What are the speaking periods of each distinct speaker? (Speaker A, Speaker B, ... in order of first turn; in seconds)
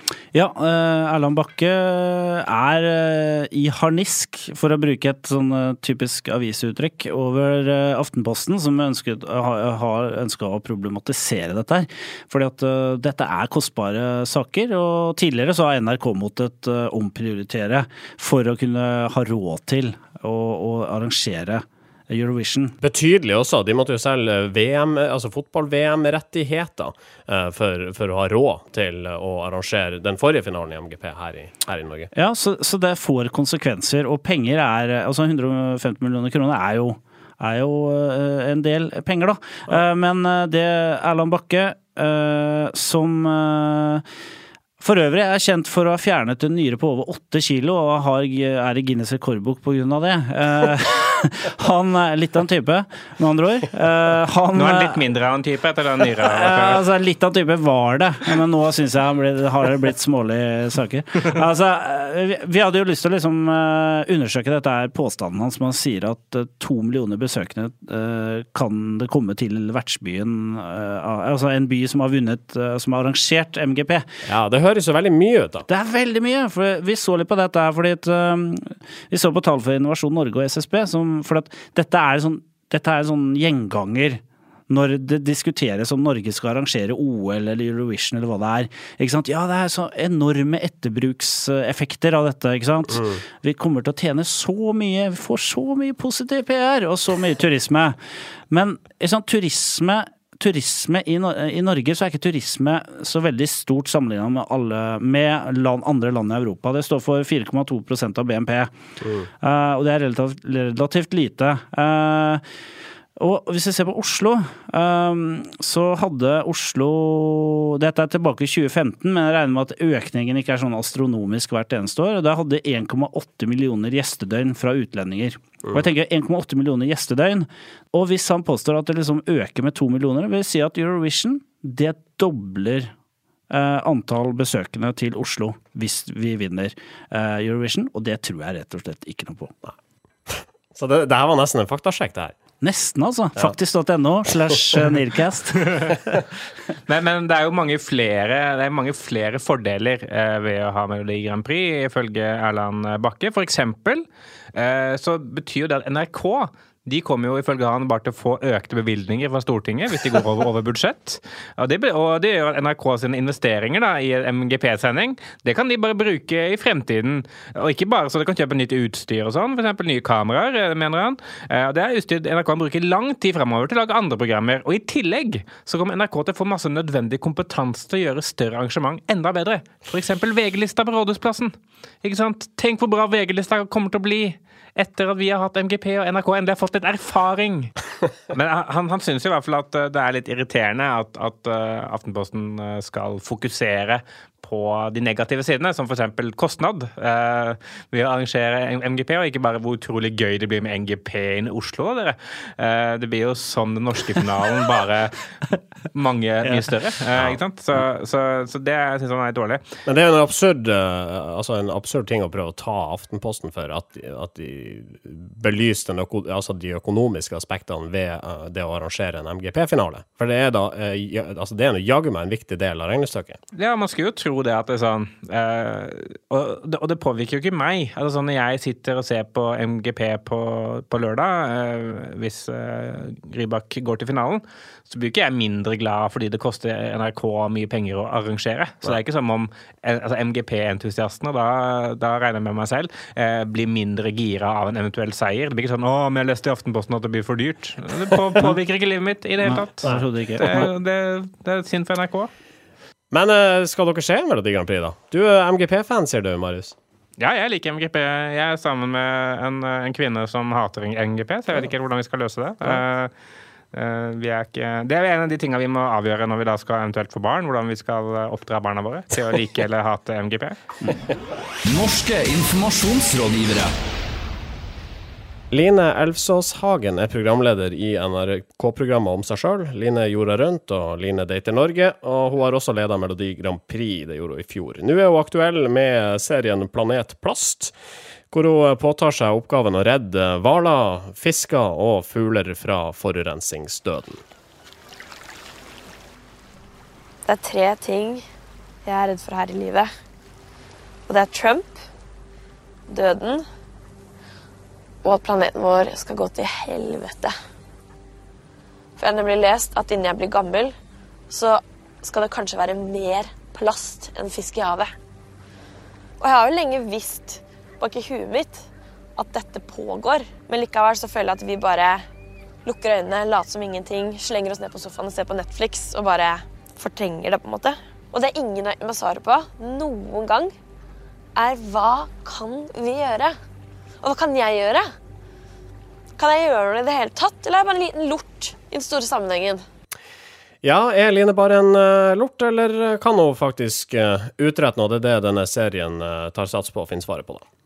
Speaker A: 0.3-22.8, 32.1-44.0, 44.8-55.0, 56.2-74.1, 75.7-98.0, 98.5-108.7, 109.4-112.4, 113.2-132.9, 133.5-139.5, 142.6-146.0, 249.4-250.7
Speaker B: 22.8-32.1, 74.2-75.7, 140.3-142.4, 209.9-223.4, 253.1-256.8, 275.5-287.7, 288.3-294.2, 340.6-347.4
Speaker C: 54.5-56.8, 146.9-187.7, 188.3-209.6, 223.5-252.3, 257.2-263.1, 263.7-270.6
Speaker D: 271.6-273.8
Speaker E: 297.3-298.2, 298.9-299.9, 301.1-301.8, 302.9-303.4, 305.0-307.3, 309.0-310.7, 311.3-314.9, 316.2-322.1, 322.6-330.5, 331.4-333.4, 334.0-334.9, 336.2-339.6